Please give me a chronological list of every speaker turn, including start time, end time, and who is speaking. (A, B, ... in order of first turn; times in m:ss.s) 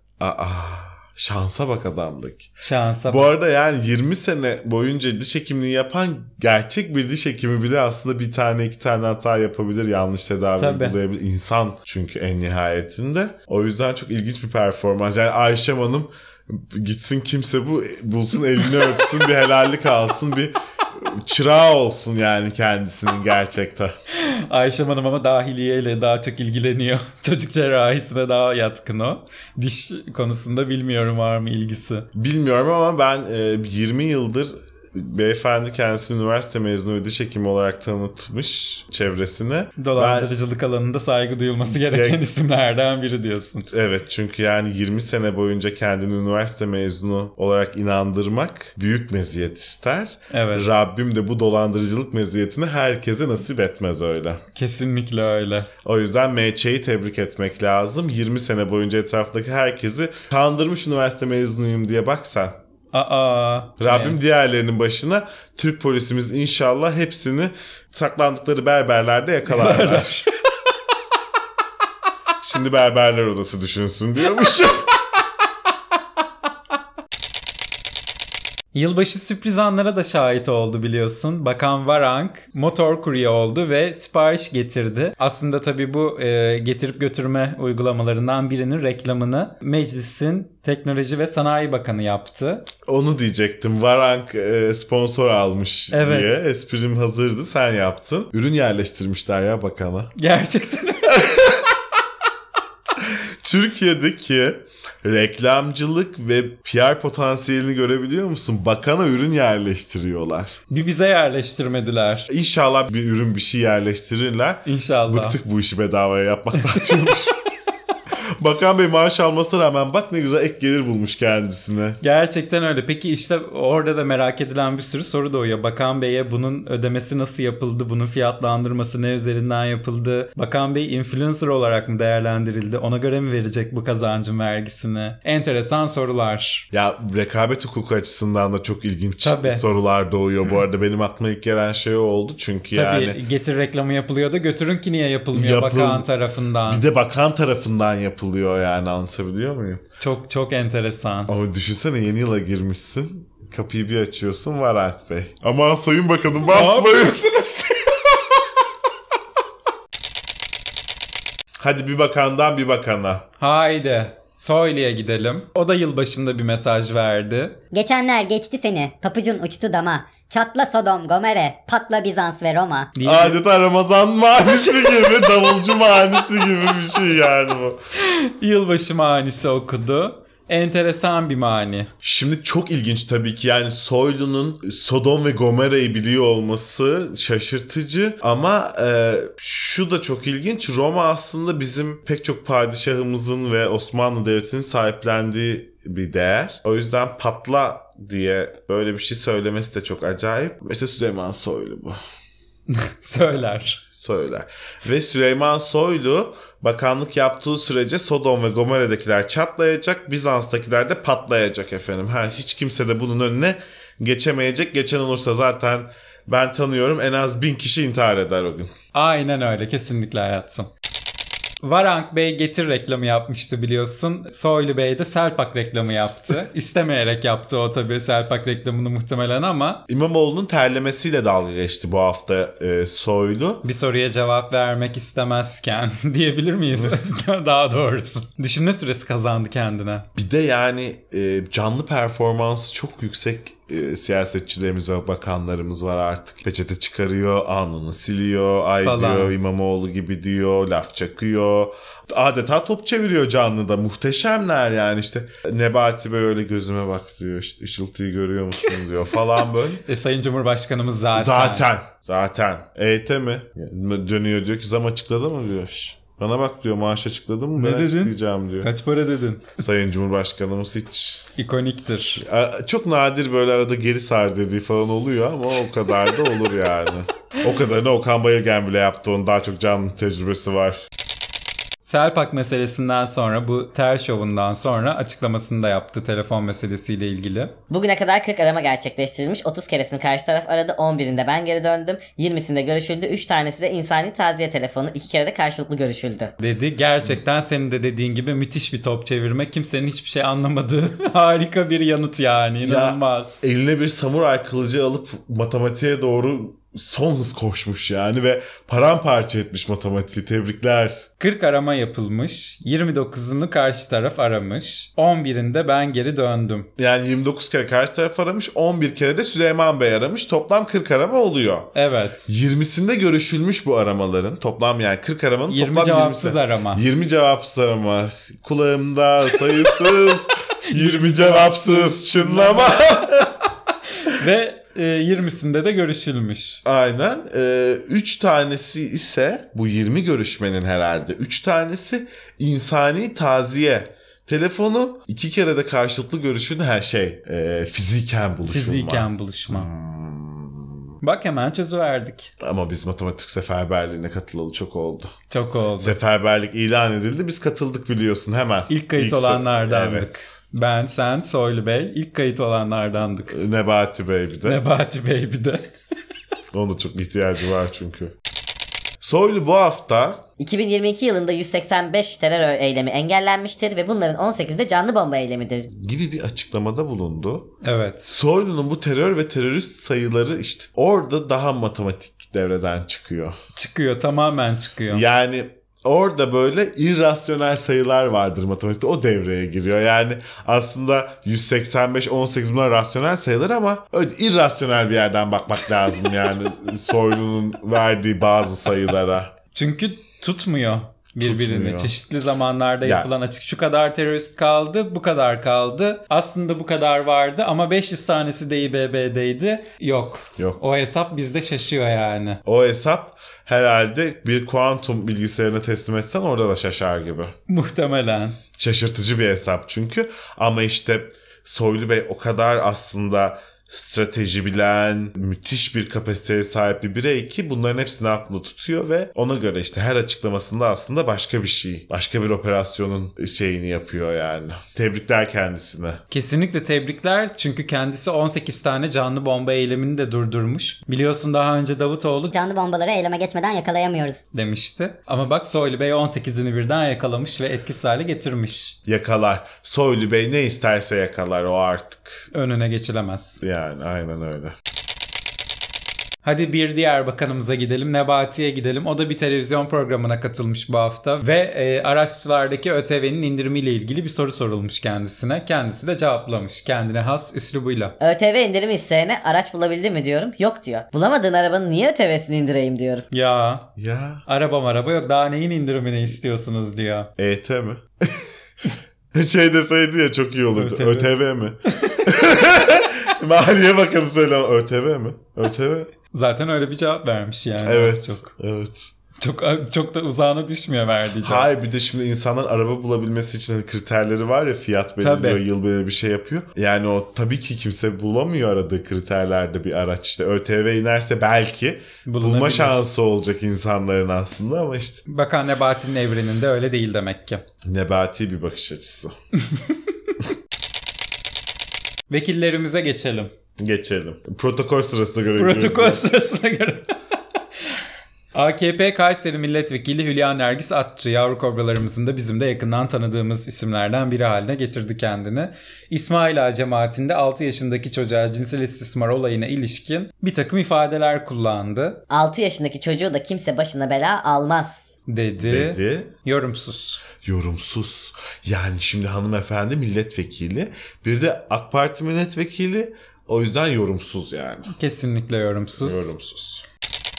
0:00.2-0:02.5 A
0:02.6-0:03.3 B
0:03.0-0:23.9 A
0:10.6-0:11.0 B
0:24.2-0:32.0 B
0:32.1-0:40.3 A
0:39.8-0:43.7 B
0:41.6-0:42.2 A
0:43.7-0:54.4 A
0:50.3-0:50.7 B
0:54.5-0:55.7 B
0:55.8-1:02.6 A
1:02.9-1:04.2 B
1:03.8-1:10.2 A
1:09.5-1:10.3 B
1:12.4-1:14.9 A
1:18.7-1:32.7 B
1:32.8-1:40.1 A
1:35.9-1:36.4 B
1:40.2-1:41.5 B
1:41.1-1:41.6 A
1:43.0-1:50.6 A
1:50.7-1:52.3 B
1:52.3-1:57.4 A
1:54.6-1:55.4 B
1:58.1-2:02.0 A
2:02.0-2:16.7 B
2:16.7-2:23.2 A
2:19.2-2:19.6 B
2:22.7-2:26.8 B
2:25.3-2:26.1 A
2:26.6-2:29.8 A
2:30.0-2:31.3 B
2:31.3-2:38.0 A
2:36.5-2:37.6 B
2:41.6-2:43.2 A
2:43.4-2:47.6 B
2:47.7-2:52.9 C
2:53.0-2:53.4 B
2:53.0-2:57.8 A
2:58.0-3:01.9 B
3:02.0-3:22.0 A
3:22.7-3:23.8 B
3:24.0-3:38.7 A
3:38.9-3:40.7 B
3:41.6-3:49.8 B
3:49.9-3:53.6 A
3:53.6-4:00.0 B
4:00.2-4:19.8 A
4:08.8-4:09.3 B
4:19.8-4:21.7 B
4:21.1-4:28.7 A
4:27.6-4:29.6 B
4:29.6-4:31.3 A
4:31.4-4:32.2 B
4:32.2-4:40.8 A
4:41.8-4:47.5 B
4:47.7-4:56.3 D
4:56.4-5:03.4 B
5:02.6-5:11.0 A
5:11.2-5:16.7 B
5:16.8-5:21.7 A
5:21.7-5:22.3 B
5:22.3-5:33.4 A
5:25.5-5:26.8 B
5:30.7-5:32.9 B
5:34.0-5:36.6 B
5:36.6-5:50.8 A
5:48.5-5:49.7 B
5:51.0-5:52.3 B
5:52.4-5:55.1 A
5:55.3-5:56.0 B
5:55.8-6:00.4 A
5:58.7-6:03.3 B
6:03.3-6:04.6 A
6:04.4-6:05.6 B
6:06.5-6:08.1 A
6:09.0-6:10.2 A
6:10.4-6:15.7 D
6:15.7-6:17.5 A
6:17.6-6:18.1 B
6:18.0-6:23.4 A
6:23.5-6:25.0 B
6:24.9-6:39.3 A
6:39.5-6:52.4 B
6:41.2-6:41.9 A
6:42.8-6:43.1 A
6:52.4-6:57.3 A
6:57.5-6:58.4 B
6:58.6-7:16.0 A
7:16.1-7:22.3 B
7:22.3-7:24.2 C
7:24.3-7:28.8 B
7:28.8-7:32.2 A
7:32.3-7:33.4 B
7:33.4-7:34.5 A
7:36.2-7:47.9 B
7:48.0-7:53.0 D
7:53.1-7:53.7 B
7:53.8-7:54.2 A
7:54.2-7:57.1 B
7:57.2-7:58.3 A
7:59.1-8:05.9 A
8:00.5-8:01.1 B
8:01.7-8:02.0 B
8:06.1-8:08.3 B
8:07.6-8:08.9 A
8:09.2-8:11.5 B
8:11.2-8:25.0 A
8:15.0-8:15.4 B
8:22.0-8:22.8 B
8:25.1-8:27.4 B
8:27.6-8:29.1 A
8:29.5-8:29.8 B
8:32.1-8:33.3 B
8:33.6-8:36.0 A
8:35.4-8:36.9 B
8:38.3-8:52.0 B
8:52.1-8:54.9 D
8:55.1-8:57.0 B
8:55.4-8:56.1 A
8:57.2-9:04.7 A
9:04.7-9:06.1 B
9:05.8-9:06.6 A